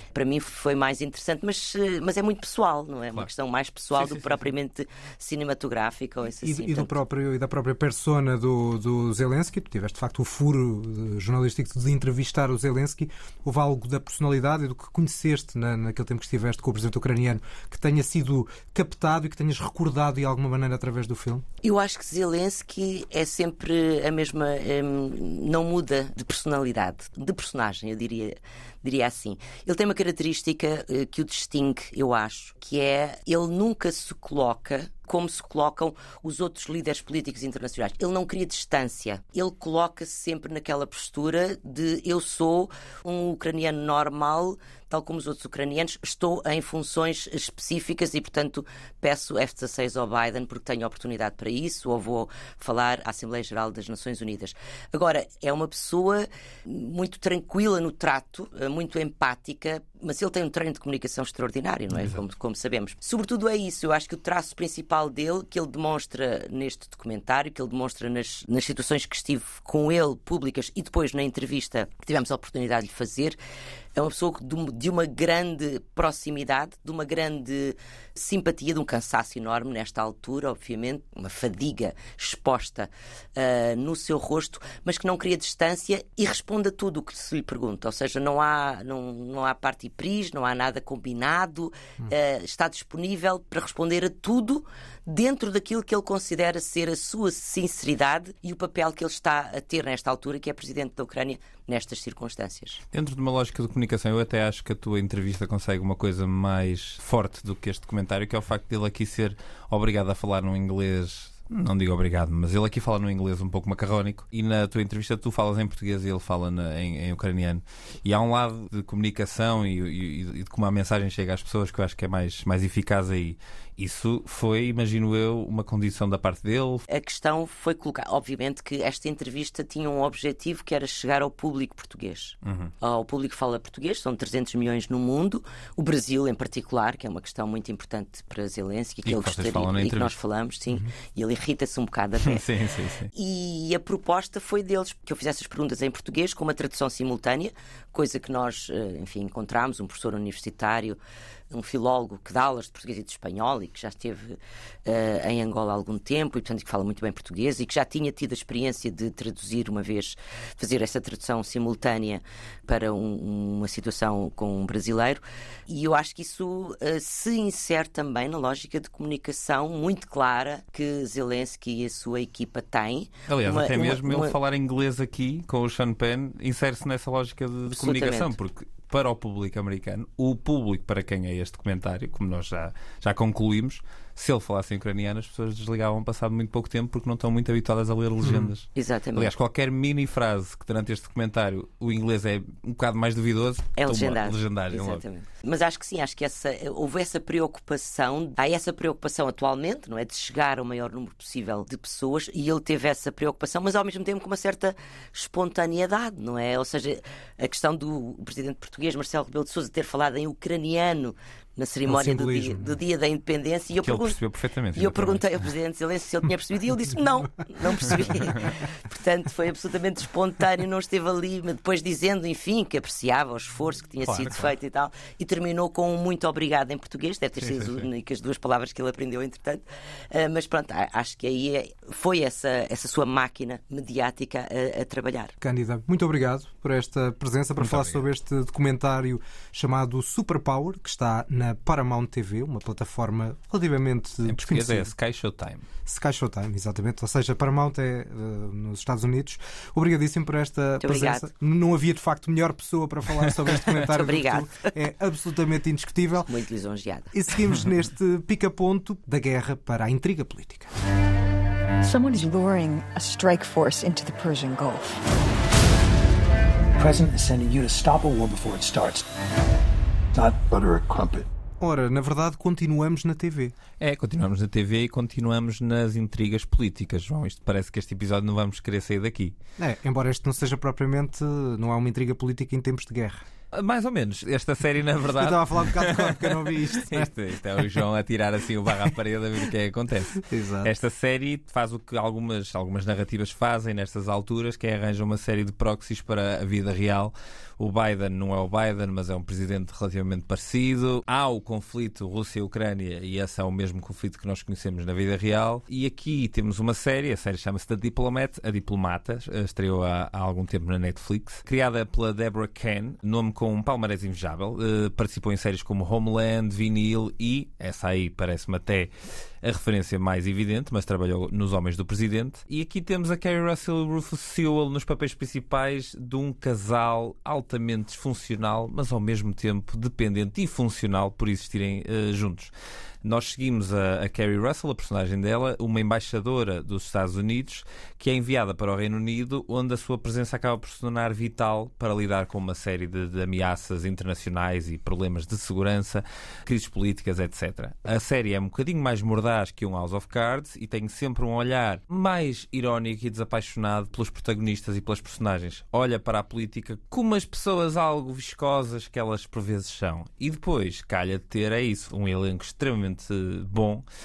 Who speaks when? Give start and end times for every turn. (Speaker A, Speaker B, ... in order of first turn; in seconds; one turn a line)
Speaker A: 0.1-7.0
Speaker B: 4.0-4.4
Speaker C: 6.3-21.4
Speaker A: 21.6-73.4
Speaker A: 74.0-102.8
Speaker B: 102.9-126.8
Speaker A: 126.9-142.4
Speaker B: 132.4-132.7
Speaker B: 139.0-140.1
Speaker B: 142.2-143.1
Speaker A: 143.1-151.0
Speaker A: 151.5-174.3
Speaker B: 173.3-195.0
Speaker A: 177.7-178.3
Speaker C: 188.2-188.5
Speaker A: 188.7-189.3
Speaker A: 193.8-214.2
Speaker C: 211.9-212.7
Speaker B: 213.8-215.4
Speaker A: 214.8-235.3
Speaker B: 224.1-224.5
Speaker B: 227.4-227.8
Speaker C: 235.4-244.9
Speaker B: 237.6-238.0
Speaker B: 244.2-245.7
Speaker C: 245.8-256.3
Speaker A: 250.8-251.3
Speaker A: 253.9-254.7
Speaker A: 256.2-257.1
Speaker C: 257.1-260.7
Speaker D: 261.8-265.0
Speaker E: 266.8-269.0
Speaker E: 270.1-271.3
Speaker C: 271.6-273.5
Speaker B: 273.8-279.4
Speaker C: 279.6-283.2
Speaker B: 283.5-318.9
Speaker C: 285.1-287.1
Speaker C: 290.2-290.7
Speaker B: 319.4-332.5
Speaker B: 333.0-363.8